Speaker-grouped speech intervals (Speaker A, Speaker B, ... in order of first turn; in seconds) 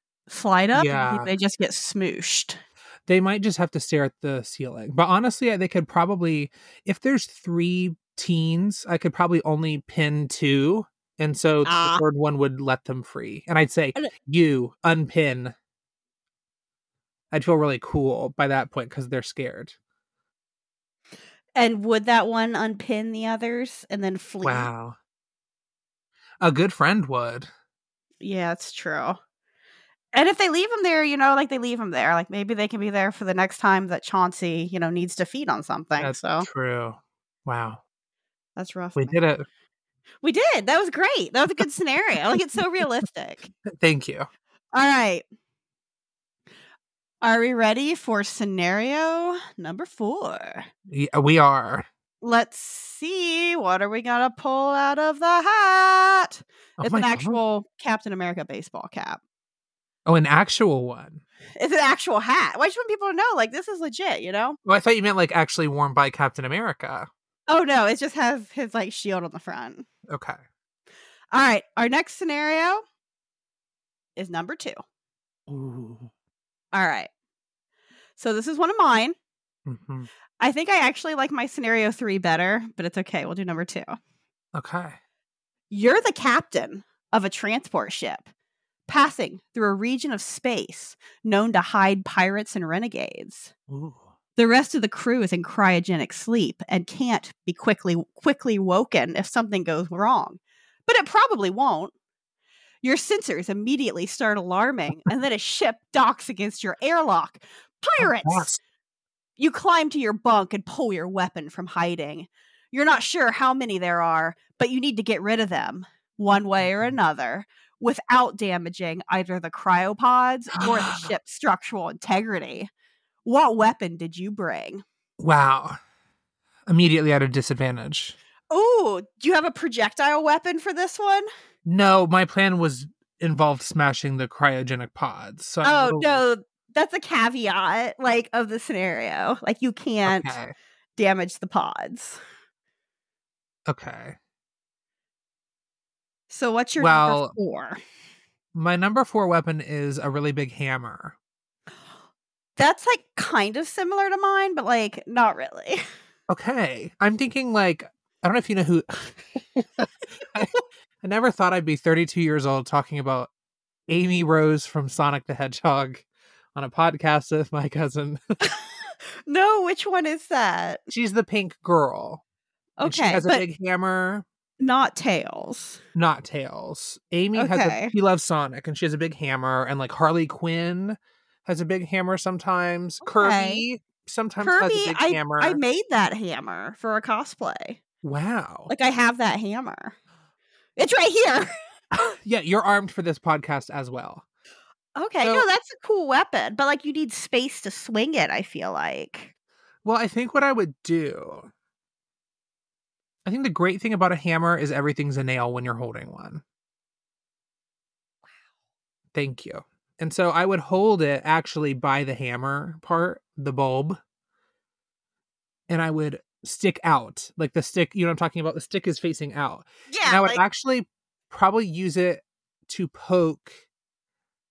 Speaker A: 0.3-2.6, 11.6-12.0, 21.6-24.7, 28.2-29.2, 30.1-36.5, 38.5-39.2, 40.2-43.5, 44.7-45.2, 47.2-50.6, 52.2-59.2, 61.6-64.6, 67.5-69.9, 71.3-72.8, 74.2-74.8, 76.7-77.1, 78.2-79.1, 80.4-83.9, 85.7-88.3, 88.9-93.5, 94.4-101.9, 102.8-108.5, 109.4-122.7, 123.2-124.8, 128.5-131.2, 135.6-140.3, 141.0-142.2, 146.3-147.8, 152.6-155.8, 169.2-170.8, 172.8-173.4, 174.6-175.8, 177.3-177.9, 183.0-183.6, 184.4-187.8, 188.7-189.9, 190.8-191.5, 194.9-199.3, 219.9-220.4
Speaker B: 0.7-1.3, 3.1-15.5, 17.3-19.8, 24.4-24.9, 26.4-27.5, 36.0-37.8, 39.0-39.5, 43.6-44.3, 50.9-51.9, 56.8-57.4, 60.0-61.2, 64.6-67.1, 70.1-70.4, 75.5-76.1, 79.7-80.1, 84.5-85.0, 93.7-94.1, 108.0-108.6, 116.6-116.9, 120.5-121.1, 125.2-125.8, 126.7-128.2, 131.6-136.2, 140.0-140.5, 143.7-144.2, 146.8-147.3, 148.5-151.2, 156.3-163.3, 163.9-168.2, 170.9-172.2, 172.8-174.2, 175.9-185.6, 188.0-188.7, 191.9-194.2, 195.2-195.5, 199.8-201.5, 203.2-206.4, 209.1-214.0, 215.7-223.6